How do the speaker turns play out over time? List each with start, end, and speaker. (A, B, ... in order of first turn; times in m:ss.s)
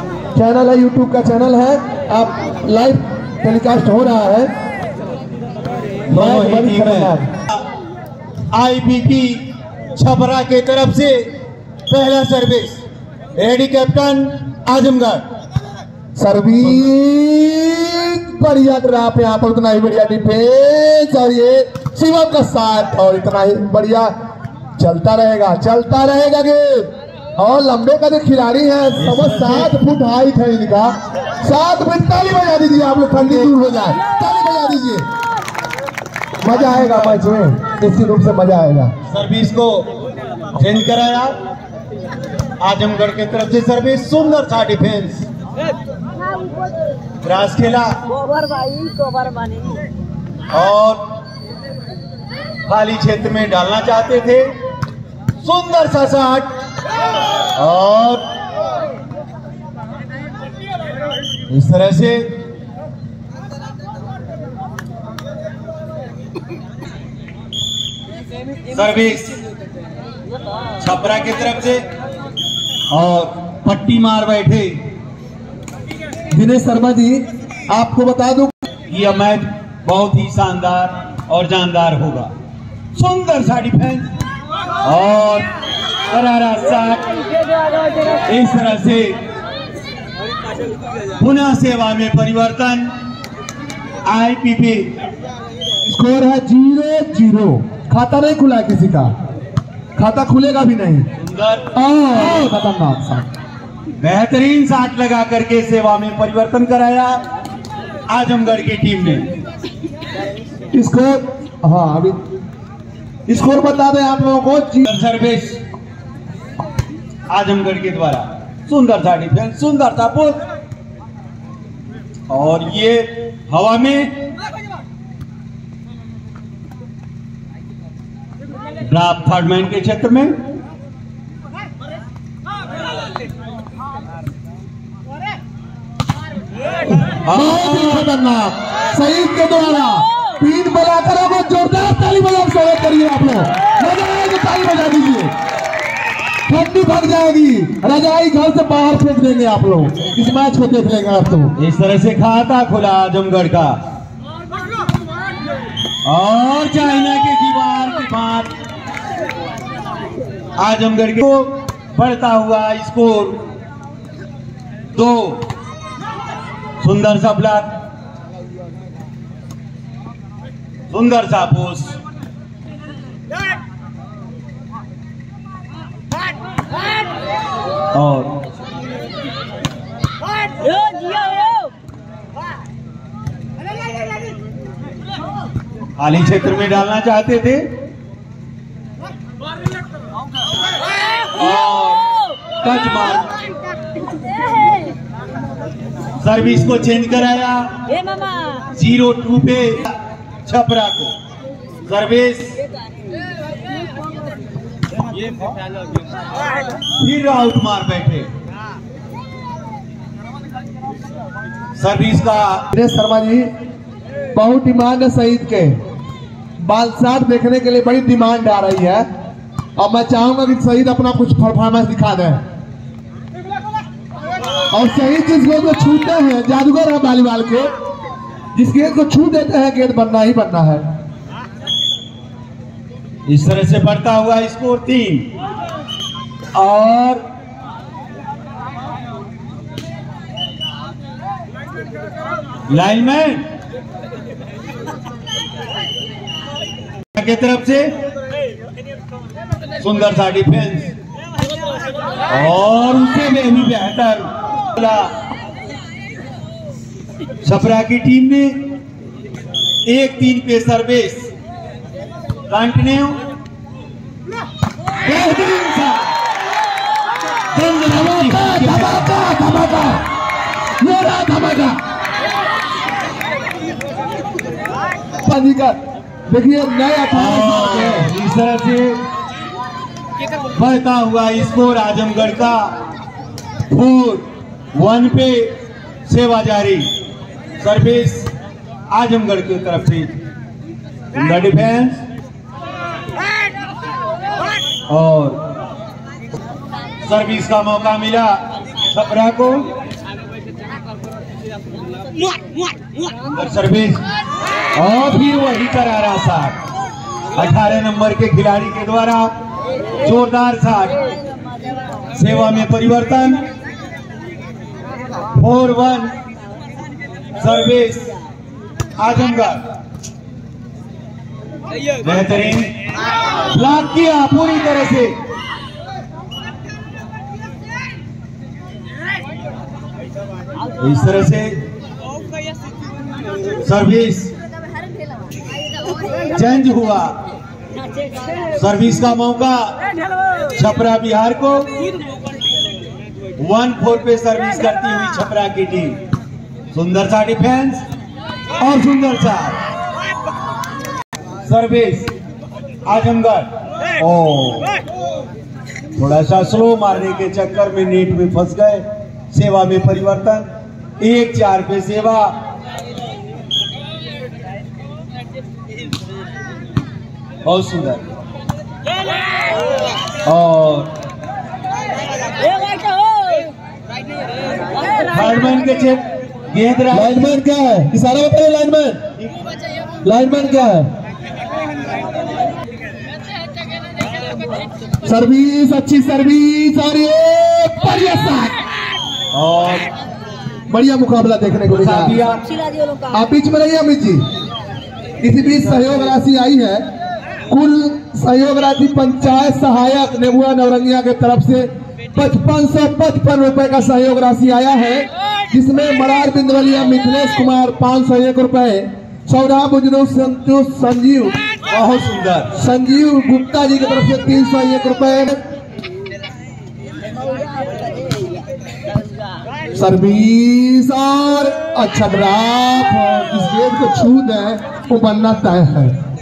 0:00.3-0:04.5 A
0:06.1-0:07.3 A
0:06.1-0:07.7 B
0:08.5-0:11.3 B
0:11.9-0:12.8 B
0:13.4-0:15.2 B
0:16.2-0:24.1 A
0:24.8-0:35.1 A
0:29.0-0:29.7 B
0:36.4-0:38.9 A
0:36.5-0:37.2 B
0:39.1-0:39.9 B
0:40.5-0:41.4 B
0:42.6-0:45.3 B
0:47.2-0:48.0 B
0:48.1-0:49.8 C
0:50.5-0:51.0 B
0:52.7-0:54.6 B
0:55.4-0:56.5 B
0:57.5-0:58.2 B
1:01.5-1:02.3 B
1:08.7-1:09.4 B
1:10.8-1:11.8 B
1:12.9-1:14.9 B
1:16.3-1:18.5 A
1:18.9-1:22.3 B
1:23.0-1:24.1 B
1:24.8-1:25.5 B
1:26.1-1:27.1 B
1:28.3-1:29.2 B
1:31.2-1:32.9 B
1:34.0-1:34.9 B
1:35.8-1:39.1 A
1:40.0-1:41.1 A
1:41.2-1:41.6 B
1:41.8-1:43.3 A
1:44.0-1:47.2 B
1:48.1-1:49.3 B
1:50.7-1:52.2 A
1:53.3-1:54.9 A
1:54.9-1:55.6 B
1:57.3-2:00.4 B
2:02.3-2:04.2 B
2:08.8-2:10.4 B
2:17.0-2:25.3 A
2:17.2-2:18.1 B
2:26.5-2:31.6 A
2:31.6-2:33.8 B
2:36.0-2:38.5 B
2:40.6-2:43.4 B
2:44.9-2:45.4 B
2:46.8-2:47.8 B
2:50.9-2:52.0 B
2:57.9-2:58.3 B
3:00.6-3:01.7 C
3:06.0-3:07.7 B
3:11.2-3:12.1 C
3:11.4-3:12.0 B
3:12.6-3:13.3 B
3:16.2-3:17.7 B
3:17.9-3:18.7 C
3:18.7-3:21.1 B
3:21.9-3:22.6 B
3:27.0-3:28.3 B
3:31.8-3:32.7 B
3:32.7-3:33.5 A
3:34.3-3:35.8 A
3:36.6-3:39.1 A
3:39.8-3:42.4 A
3:44.7-3:47.7 A
3:48.6-3:50.8 A
3:53.3-3:55.3 B
3:56.6-3:57.2 B
4:02.7-4:03.5 B
4:07.2-4:08.0 B
4:09.8-4:10.9 B
4:12.3-4:15.1 B
4:17.4-4:18.7 B
4:19.9-4:21.3 B
4:22.5-4:23.2 B
4:27.6-4:29.1 B
4:27.7-4:30.0 A
4:30.8-4:31.8 A
4:35.2-4:38.1 A
4:37.1-4:39.0 B
4:40.6-4:42.7 B
4:43.7-4:45.6 B
4:46.1-4:46.9 B
4:47.6-4:48.3 B
4:48.9-4:50.2 B
4:51.1-4:52.0 B
4:54.9-4:55.4 B
4:57.0-4:59.7 B
5:02.2-5:02.6 C
5:03.3-5:04.0 B
5:04.8-5:06.6 B
5:07.4-5:09.4 B
5:10.0-5:11.0 B
5:12.1-5:13.4 B
5:15.4-5:16.1 B
5:17.4-5:18.1 B
5:19.0-5:19.6 B
5:22.0-5:22.7 B
5:23.5-5:25.2 B
5:30.8-5:31.6 B
5:33.6-5:34.3 B
5:36.3-5:37.2 B
5:37.7-5:38.5 C
5:38.6-5:39.8 B
5:40.6-5:41.8 B
5:43.4-5:46.0 B
5:46.7-5:47.8 B
5:48.6-5:49.6 B
5:51.5-5:52.1 B
5:52.8-5:54.7 B
5:56.0-6:02.4 B
6:07.4-6:08.0 B
6:10.2-6:10.9 B
6:12.4-6:13.5 C
6:14.5-6:15.3 C
6:15.1-6:17.4 B
6:16.9-6:19.0 A
6:20.0-6:20.9 A
6:25.1-6:28.6 A
6:29.3-6:29.9 B
6:30.7-6:32.2 A
6:31.7-6:32.4 B
6:32.4-6:33.3 C
6:33.1-6:34.2 A
6:35.2-6:36.8 A
6:37.5-6:51.4 A
6:51.7-6:52.5 B
6:52.5-6:55.4 A
6:57.1-6:59.4 C
6:59.8-7:05.9 A